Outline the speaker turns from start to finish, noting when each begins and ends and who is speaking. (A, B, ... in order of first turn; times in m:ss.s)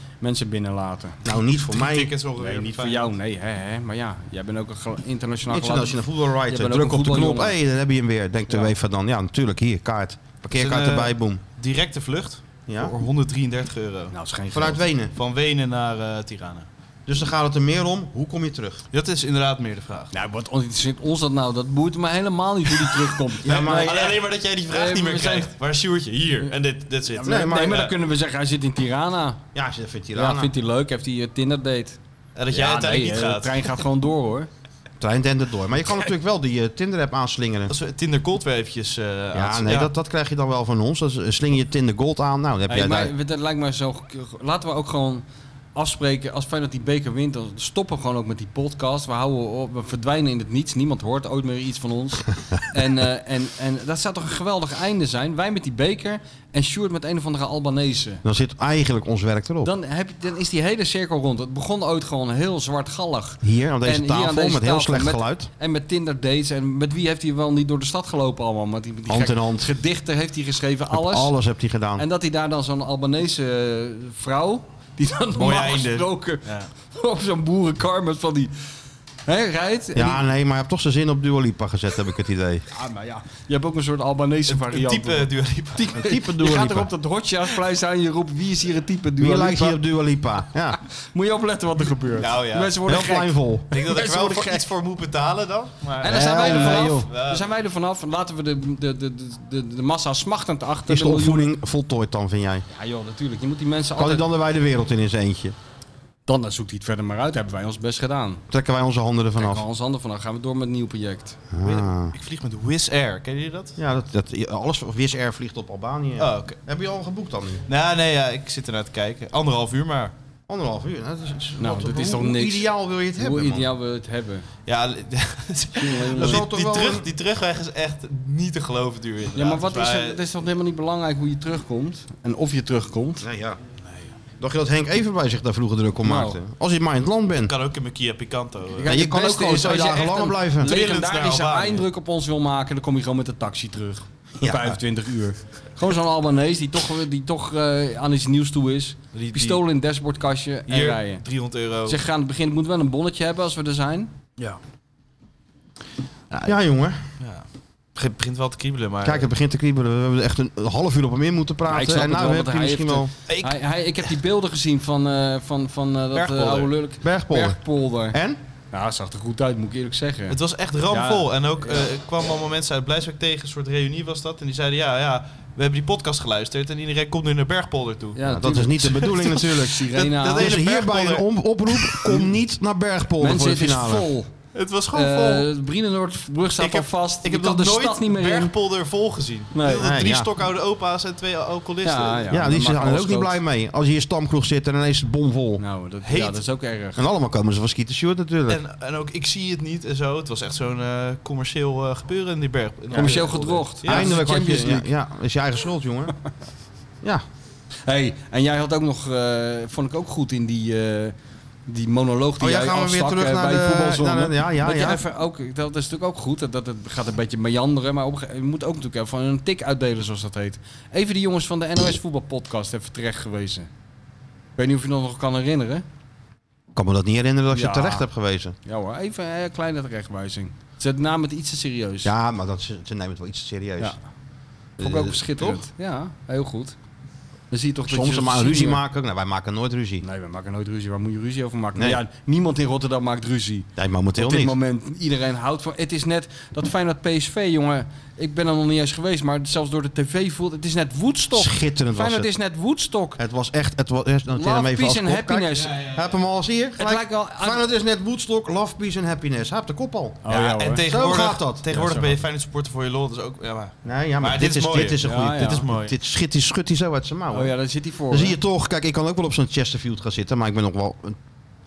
0:00.2-0:01.2 A
0:01.2-0:02.1 B
0:01.7-0:03.1 C
0:02.4-0:07.5 A
0:05.5-0:11.4 B
0:10.5-0:14.1 C
0:12.7-0:12.9 B
0:14.1-0:14.8 A
0:14.5-0:15.1 B
0:15.1-0:16.7 C
0:17.1-0:18.8 B
0:18.9-0:20.1 C
0:20.1-0:24.1 A
0:23.4-0:24.2 B
0:23.4-0:27.9 C
0:24.7-0:25.5 A
0:27.1-0:29.4 A
0:27.2-0:27.9 B
0:29.5-0:30.5 B
0:30.1-0:32.0 A
0:32.4-0:33.7 C
0:32.5-0:34.5 A
0:35.0-0:37.7 B
0:37.7-0:39.9 C
0:39.3-0:43.1 B
0:42.7-0:45.2 A
0:45.7-0:58.2 A
0:58.2-0:59.7 B
0:59.6-1:11.3 A
1:03.4-1:05.5 B
1:09.1-1:09.7 B
1:10.9-1:12.0 B
1:12.0-1:18.5 A
1:15.4-1:16.7 C
1:19.2-1:20.2 A
1:19.9-1:22.6 B
1:22.7-1:29.8 A
1:24.5-1:25.9 C
1:25.9-1:26.9 B
1:29.2-1:30.8 B
1:31.1-1:34.7 A
1:32.2-1:33.0 C
1:32.8-1:33.6 B
1:33.7-1:37.4 C
1:36.0-1:41.5 A
1:36.0-1:37.1 B
1:40.9-1:42.6 B
1:42.7-1:44.2 A
1:44.0-1:45.5 B
1:46.3-1:48.4 A
1:48.5-1:49.6 B
1:49.4-1:51.4 A
1:51.5-1:52.1 B
1:51.6-1:53.8 C
1:53.8-1:57.6 B
1:56.2-1:56.6 C
1:57.7-2:00.1 C
2:00.5-2:03.7 B
2:01.6-2:04.4 A
2:04.7-2:10.2 C
2:05.8-2:06.4 A
2:06.1-2:07.1 B
2:09.4-2:13.2 A
2:13.2-2:13.6 B
2:14.4-2:17.5 B
2:16.0-2:16.4 A
2:17.4-2:19.0 C
2:18.8-2:31.2 A
2:18.8-2:20.7 B
2:19.7-2:20.1 C
2:20.6-2:21.8 C
2:24.4-2:24.8 B
2:29.1-2:29.6 C
2:30.7-2:32.0 C
2:31.8-2:34.1 A
2:36.3-2:36.6 C
2:36.4-2:37.0 B
2:37.2-2:39.3 C
2:39.0-2:43.1 B
2:41.7-2:48.2 A
2:43.3-2:43.5 C
2:46.1-2:46.7 C
2:47.0-2:47.6 B
2:48.1-2:48.4 B
2:48.7-2:50.4 A
2:50.3-2:58.2 C
2:50.9-2:51.8 A
2:58.2-3:00.6 A
2:58.2-3:04.1 B
2:58.9-3:02.3 C
3:03.2-3:04.3 A
3:04.5-3:05.5 C
3:04.9-3:08.5 A
3:06.6-3:12.3 C
3:09.5-3:09.9 A
3:09.8-3:10.3 B
3:11.8-3:13.4 A
3:12.3-3:15.6 B
3:15.6-3:17.0 A
3:16.0-3:16.4 C
3:17.0-3:18.6 B
3:18.5-3:24.2 C
3:22.9-3:24.9 A
3:22.9-3:23.3 B
3:23.8-3:26.1 B
3:27.9-3:31.1 A
3:31.7-3:43.7 A
3:32.4-3:35.0 B
3:44.6-3:45.8 A
3:46.7-3:48.6 B
3:47.5-3:48.0 A
3:48.6-3:52.1 A
3:52.0-3:54.0 B
3:54.8-3:55.6 B
3:54.8-3:56.7 A
3:57.5-3:58.8 A
3:57.9-4:00.0 B
4:00.0-4:13.2 A
4:01.7-4:02.0 B
4:03.8-4:04.5 B
4:11.3-4:12.3 B
4:13.2-4:20.2 B
4:14.3-4:15.8 A
4:15.6-4:16.2 C
4:16.8-4:17.6 A
4:20.2-4:20.8 A
4:20.3-4:25.9 C
4:20.8-4:21.7 B
4:21.7-4:22.1 A
4:23.8-4:27.5 B
4:25.0-4:25.9 A
4:27.3-4:28.4 A
4:28.1-4:31.2 B